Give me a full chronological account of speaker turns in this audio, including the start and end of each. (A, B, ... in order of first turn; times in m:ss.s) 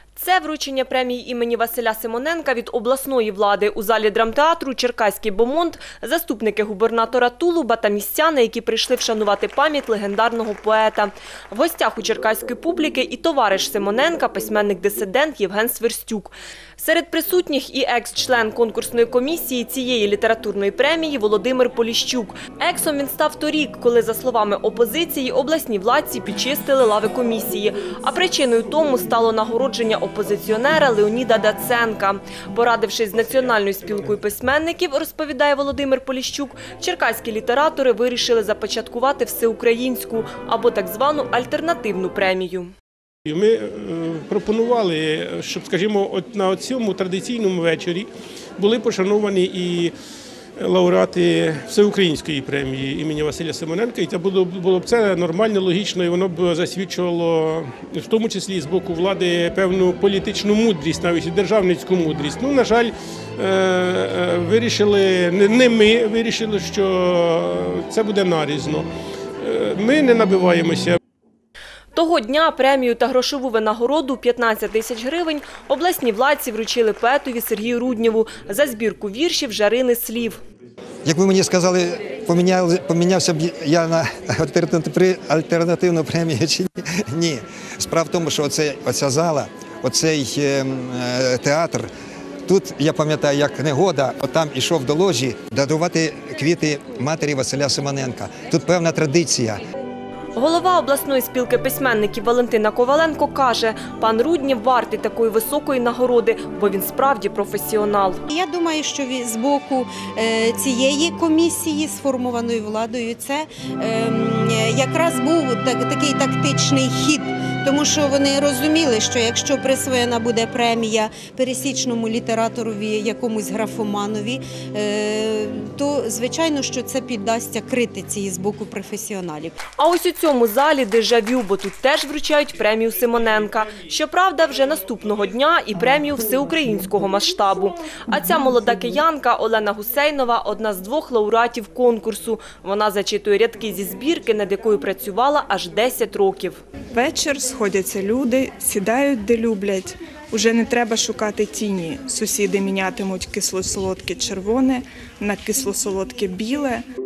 0:00.2-0:42.7 A
0:43.2-0:49.9 B
0:50.6-1:08.9 B
1:09.4-1:11.0 B
1:11.9-1:20.4 A
1:21.0-1:31.9 C
1:32.4-1:39.6 C
1:40.3-1:48.2 A
1:48.3-2:09.6 D
2:09.8-2:26.6 A
2:26.9-2:36.8 E